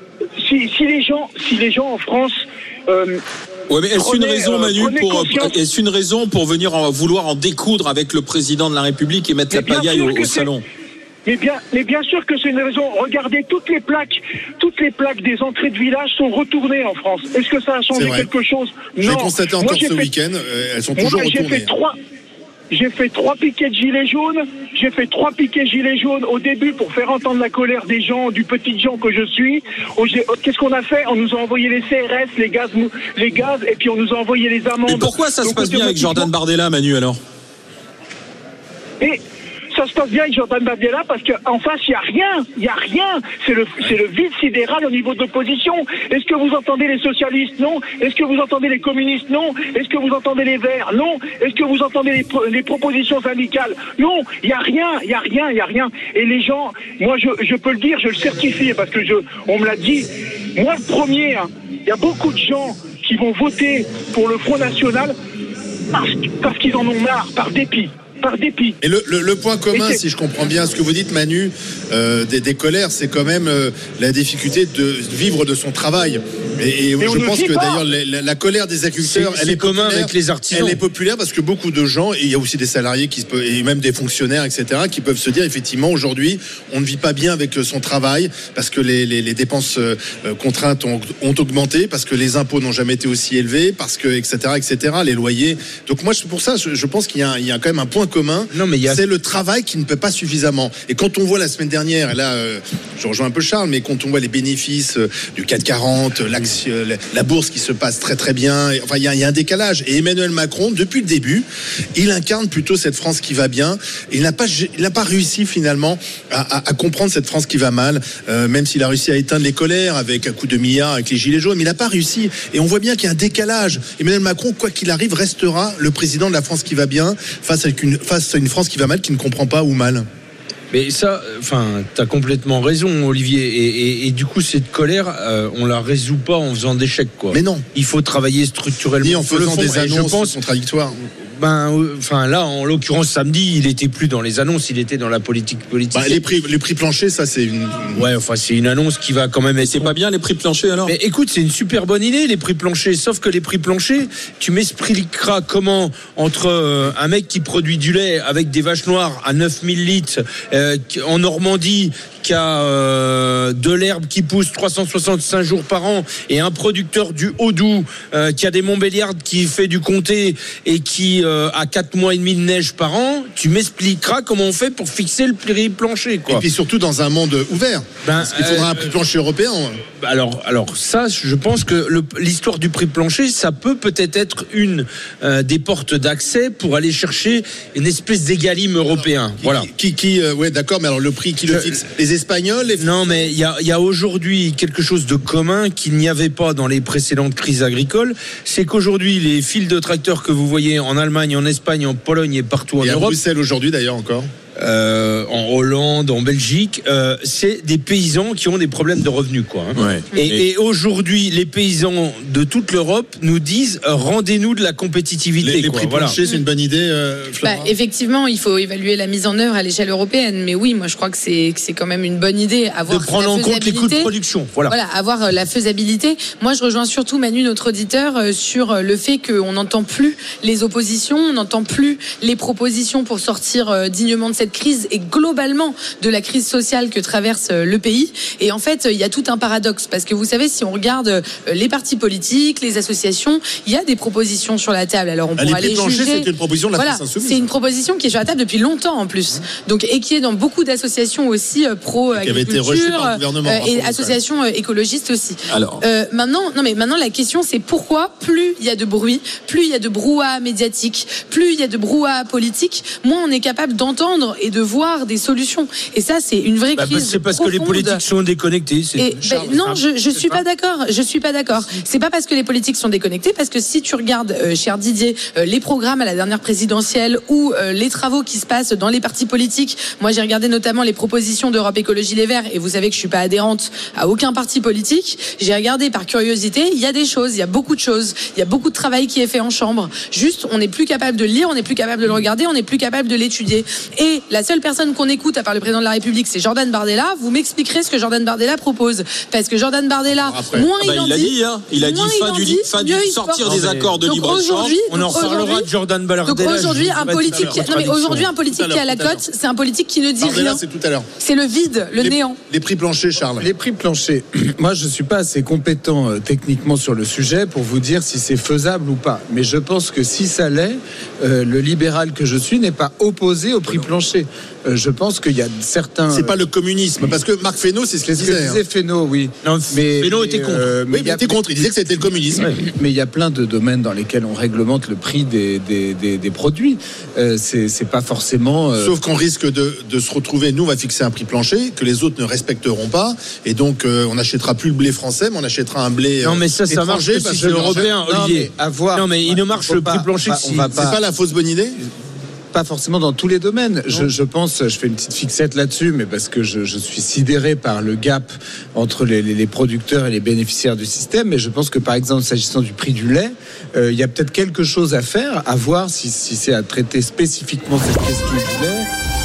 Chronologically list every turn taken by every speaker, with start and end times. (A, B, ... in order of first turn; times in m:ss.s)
0:00.4-0:03.2 A
0:03.7-0:10.6 B
0:04.0-0:05.6 A
0:09.5-0:10.5 A
0:11.3-0:20.1 A
0:17.9-0:18.3 C
0:19.0-0:21.7 C
0:21.0-0:22.0 A
0:22.7-0:36.3 A
0:34.8-0:37.2 B
0:39.7-1:05.1 A
1:05.9-1:08.8 A
1:08.8-2:10.1 C
1:09.7-1:10.0 A
1:17.0-1:17.8 A
1:19.0-1:20.8 D
1:38.5-1:39.0 D
2:10.7-2:20.4 D
2:17.3-2:17.6 C
2:19.0-2:21.0 C
2:21.4-2:26.2 D
2:25.9-2:28.0 C
2:27.9-2:29.9 D
2:29.6-2:30.9 B
2:30.9-2:56.5 D
2:56.3-2:59.8 C
2:58.0-2:58.9 D
3:00.0-3:09.7 D
3:08.9-3:13.3 C
3:11.5-3:11.8 D
3:12.8-3:23.2 D
3:22.8-3:24.3 C
3:24.6-3:36.2 D
3:29.8-3:30.4 B
3:35.4-3:37.7 C
3:37.4-3:44.1 E
3:42.9-3:44.7 D
3:44.7-4:28.0 E
4:05.4-4:07.5 C
4:12.1-4:14.2 C
4:15.5-4:15.8 B
4:26.8-4:30.4 D
4:29.0-5:03.4 E
4:29.2-4:29.7 C
5:00.1-5:00.7 C
5:00.8-5:04.8 B
5:03.4-5:04.0 D
5:04.0-5:05.7 E
5:04.9-5:08.3 D
5:06.2-5:10.6 E
5:06.6-5:09.2 C
5:10.2-5:11.1 C
5:11.2-5:12.4 E
5:12.0-5:13.5 C
5:13.4-5:26.4 F
5:26.1-5:28.6 C
5:28.0-5:31.4 F
5:29.4-5:30.7 D
5:30.9-5:32.5 C
5:32.5-5:39.0 F
5:38.8-5:47.9 C
5:46.2-5:50.7 D
5:47.3-5:51.0 F
5:50.7-5:51.8 C
5:52.5-6:08.9 F